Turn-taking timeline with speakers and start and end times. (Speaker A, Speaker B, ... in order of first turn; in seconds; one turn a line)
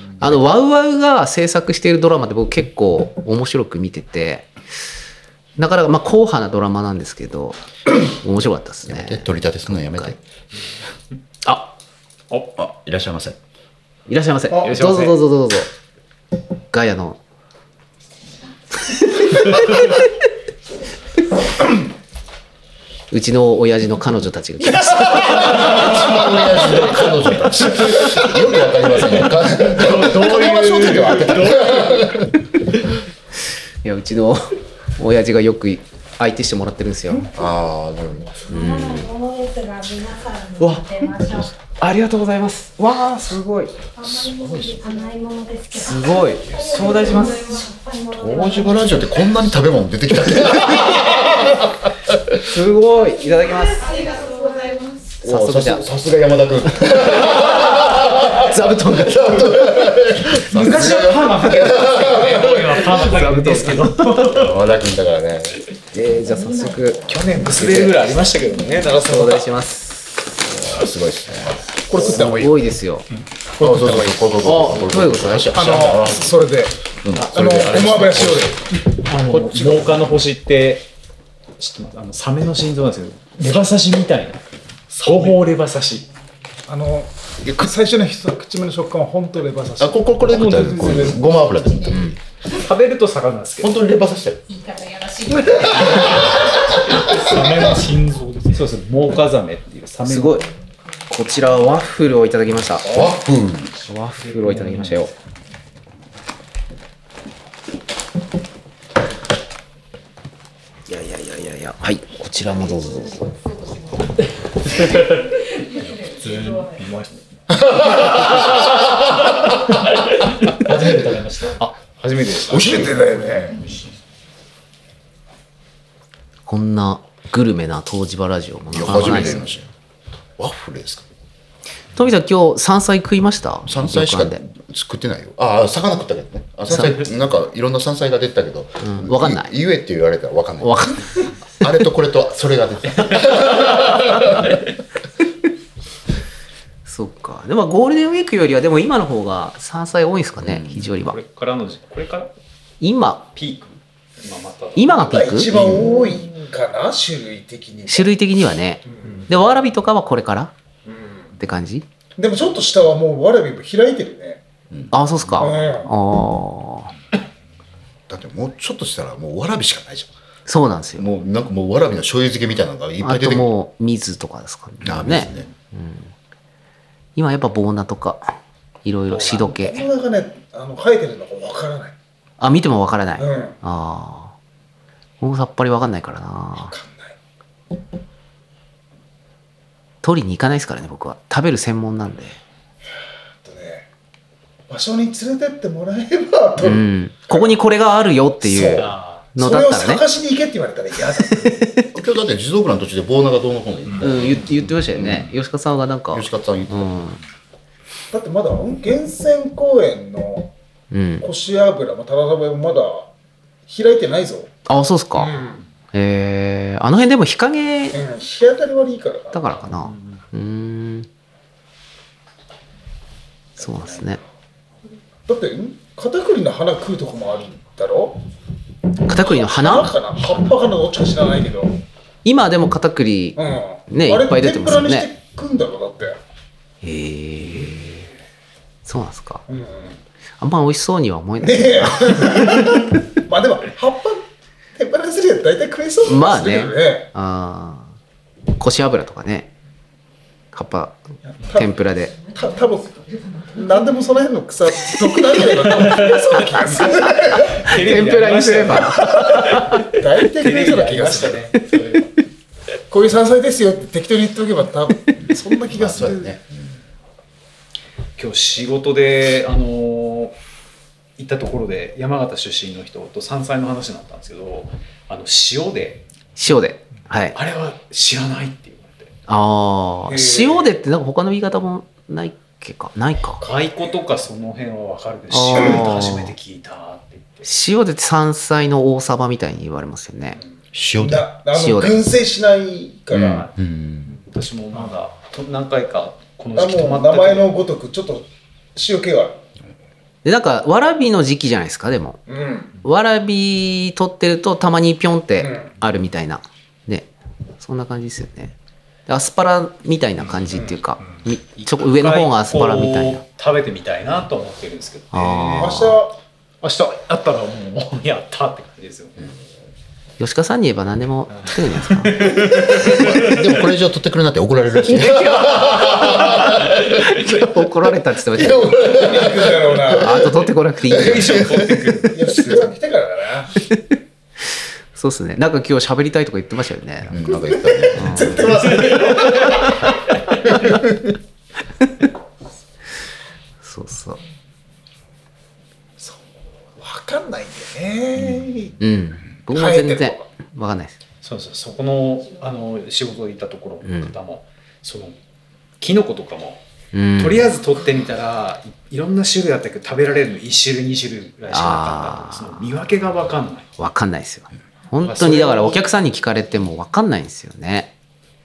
Speaker A: 0.2-4.5
Speaker A: 5.6-10.1
Speaker B: 8.8-10.2
Speaker A: 11.4-11.7
Speaker B: 12.6-13.4
Speaker A: 14.1-15.7
Speaker C: 14.6-15.2
Speaker A: 16.7-17.2
Speaker A: 18.9-20.1
Speaker A: 23.1-26.2
Speaker B: 25.2-32.4
Speaker C: 29.5-32.1
Speaker A: 33.8-37.3
Speaker B: 37.3-38.8
Speaker A: 38.5-39.1
Speaker D: 38.5-41.5
Speaker A: 40.6-41.2
Speaker A: 41.8-43.7
Speaker D: 44.0-49.0
Speaker A: 45.7-47.7
Speaker B: 48.1-52.4
Speaker A: 52.4-54.0
Speaker D: 53.7-55.1
Speaker B: 55.2-63.0
Speaker A: 55.2-55.8
Speaker A: 57.3-59.9
Speaker C: 60.5-64.6
Speaker A: 62.9-64.3
Speaker B: 64.2-65.6
Speaker A: 65.9-68.2
Speaker D: 66.4-66.7
Speaker C: 67.1-69.5
Speaker A: 68.9-70.5
Speaker B: 70.6-72.6
Speaker E: 72.0-72.4
Speaker A: 72.0-73.0
Speaker B: 73.6-76.5
Speaker A: 74.4-76.0
Speaker E: 75.5-78.6
Speaker B: 77.0-80.1
Speaker C: 77.2-77.7
Speaker C: 78.9-80.9
Speaker C: 81.6-84.4
Speaker C: 84.9-86.1
Speaker E: 86.7-91.1
Speaker B: 89.8-92.1
Speaker C: 90.3-91.2
Speaker C: 92.5-93.8
Speaker B: 93.6-94.4
Speaker D: 94.5-96.7
Speaker B: 95.5-97.6
Speaker F: 97.0-98.6
Speaker C: 98.5-100.5
Speaker A: 100.0-100.5
Speaker A: 101.1-102.9
Speaker B: 102.8-103.8
Speaker A: 103.8-105.1
Speaker C: 104.3-105.1
Speaker A: 110.9-113.3
Speaker D: 113.2-113.7
Speaker D: 115.6-116.8
Speaker F: 115.8-117.1
Speaker B: 117.6-118.5
Speaker F: 120.2-121.6
Speaker C: 121.6-123.0
Speaker E: 122.5-123.6
Speaker A: 126.5-129.4
Speaker B: 128.7-129.7
Speaker B: 130.4-131.1
Speaker A: 131.9-134.4
Speaker B: 133.7-140.8
Speaker A: 136.7-137.0
Speaker A: 138.8-139.5
Speaker A: 140.6-141.2
Speaker B: 141.6-144.6
Speaker A: 146.8-151.2
Speaker B: 150.4-150.9
Speaker C: 150.9-152.3
Speaker A: 152.8-153.3
Speaker C: 153.3-155.2
Speaker A: 154.8-155.6
Speaker E: 155.0-158.2
Speaker B: 155.5-156.0
Speaker A: 157.9-160.5
Speaker E: 160.9-161.2
Speaker A: 161.4-161.8
Speaker E: 162.2-164.4
Speaker A: 164.9-166.9
Speaker E: 165.4-165.9
Speaker B: 168.1-170.1
Speaker A: 170.5-171.1
Speaker B: 171.0-173.5
Speaker A: 173.0-176.1
Speaker B: 174.8-175.5
Speaker A: 177.2-179.9
Speaker E: 179.2-181.9
Speaker A: 182.4-184.3
Speaker E: 183.2-183.6
Speaker A: 185.2-186.7
Speaker E: 186.7-187.1
Speaker A: 190.0-192.4
Speaker E: 193.4-193.9
Speaker E: 194.7-197.5
Speaker A: 196.6-200.0
Speaker E: 198.4-201.8
Speaker C: 198.7-199.2
Speaker A: 201.3-201.8
Speaker B: 201.9-205.3
Speaker A: 204.0-207.2
Speaker B: 206.1-207.0
Speaker E: 208.1-210.5
Speaker A: 210.9-211.3
Speaker E: 211.2-213.1
Speaker E: 213.7-214.5
Speaker A: 214.7-215.3
Speaker E: 215.1-215.6
Speaker A: 215.9-218.0
Speaker E: 217.9-219.6
Speaker A: 219.3-221.1
Speaker A: 223.6-224.2
Speaker E: 225.3-228.2
Speaker A: 229.0-229.9
Speaker E: 229.2-231.8
Speaker A: 232.2-235.1
Speaker E: 233.3-236.2
Speaker A: 236.8-238.1
Speaker A: 238.8-239.4
Speaker E: 239.5-240.0
Speaker A: 240.4-242.9
Speaker E: 241.4-244.2
Speaker E: 244.8-247.1
Speaker A: 246.1-247.9
Speaker A: 248.6-249.5
Speaker A: 250.5-251.0
Speaker E: 251.3-257.6
Speaker A: 251.5-252.1
Speaker A: 257.2-259.9
Speaker C: 257.4-262.1
Speaker E: 259.9-261.5
Speaker E: 262.9-266.4
Speaker B: 265.7-266.4
Speaker C: 268.2-270.4
Speaker C: 271.2-276.0
Speaker A: 276.4-277.4
Speaker C: 277.3-279.1
Speaker A: 279.3-283.4
Speaker E: 280.1-280.6
Speaker E: 283.4-283.9
Speaker C: 283.4-287.4
Speaker A: 285.3-286.3
Speaker E: 285.5-285.9
Speaker A: 287.4-290.4
Speaker B: 290.7-291.3
Speaker E: 291.0-293.5
Speaker A: 291.5-292.0
Speaker C: 293.1-293.5
Speaker B: 293.1-294.1
Speaker C: 294.1-297.5
Speaker E: 296.5-299.4
Speaker A: 300.2-302.2
Speaker E: 302.3-302.7
Speaker A: 302.8-307.1
Speaker E: 305.4-305.7
Speaker A: 307.6-308.5
Speaker A: 309.1-313.2
Speaker C: 311.6-315.9
Speaker A: 315.1-316.0
Speaker E: 315.6-316.2
Speaker C: 316.6-319.2
Speaker A: 320.2-322.5
Speaker C: 321.4-323.4
Speaker B: 322.7-327.4
Speaker A: 324.9-328.8
Speaker B: 328.3-330.3
Speaker E: 328.9-330.3
Speaker A: 330.0-331.8
Speaker B: 330.9-331.8
Speaker C: 330.9-332.7
Speaker E: 332.1-333.5
Speaker A: 334.9-337.2
Speaker B: 337.1-338.4
Speaker E: 337.7-339.7
Speaker A: 337.9-339.7
Speaker A: 343.6-344.2
Speaker E: 346.8-348.8
Speaker A: 348.8-350.9
Speaker E: 349.5-350.2
Speaker C: 351.2-355.1
Speaker A: 353.8-354.1
Speaker C: 355.8-356.6
Speaker A: 356.9-357.5
Speaker C: 357.2-363.7
Speaker A: 361.5-362.4
Speaker A: 363.8-367.9
Speaker C: 365.0-365.9